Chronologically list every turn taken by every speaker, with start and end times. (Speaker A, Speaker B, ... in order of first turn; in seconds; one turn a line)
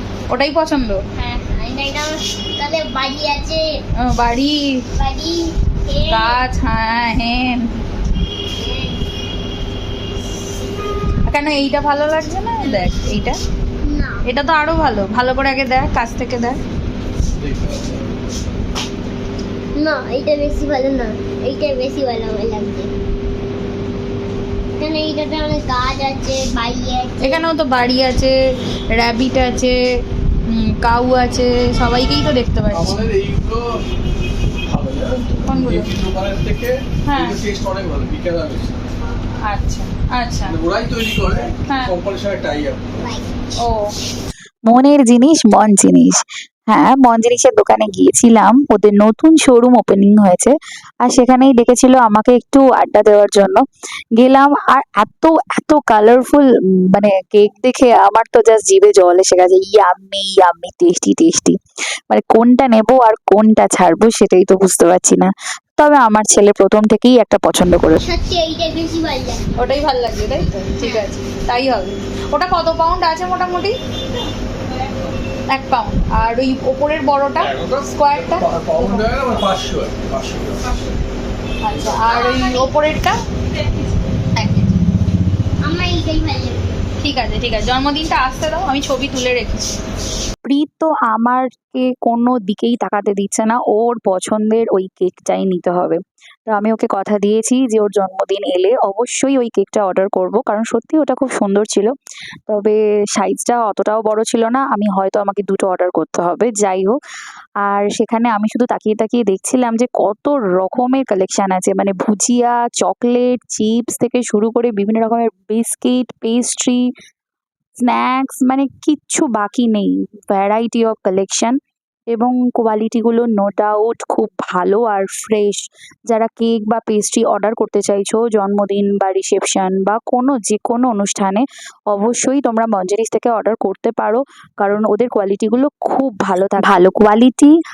Speaker A: 0.3-1.0
Speaker B: 1.2-3.6
Speaker A: 4.0-4.8
Speaker B: 5.0-6.4
Speaker A: 6.1-7.8
Speaker B: 8.5-9.0
Speaker A: 11.3-13.4
Speaker B: 13.8-14.2
Speaker A: 14.3-16.6
Speaker C: 17.4-18.2
Speaker B: 19.8-22.9
Speaker B: 24.8-27.4
Speaker A: 27.2-28.4
Speaker A: 28.9-29.8
Speaker A: 30.5-32.9
Speaker C: 32.7-33.8
Speaker C: 34.6-38.8
Speaker A: 35.1-35.9
Speaker A: 37.1-37.4
Speaker A: 39.4-40.6
Speaker C: 40.5-42.9
Speaker A: 41.7-41.9
Speaker B: 43.0-43.3
Speaker A: 43.6-43.9
Speaker D: 44.7-53.6
Speaker D: 54.1-61.5
Speaker D: 62.1-68.0
Speaker B: 68.0-69.5
Speaker A: 69.6-73.7
Speaker B: 70.8-71.1
Speaker A: 75.5-79.3
Speaker C: 77.4-80.7
Speaker A: 81.6-83.2
Speaker B: 82.0-82.8
Speaker A: 84.4-84.7
Speaker B: 85.6-86.8
Speaker A: 87.0-89.7
Speaker D: 90.4-101.9
Speaker D: 102.5-106.9
Speaker D: 107.6-116.8
Speaker D: 117.8-121.6
Speaker D: 122.1-137.5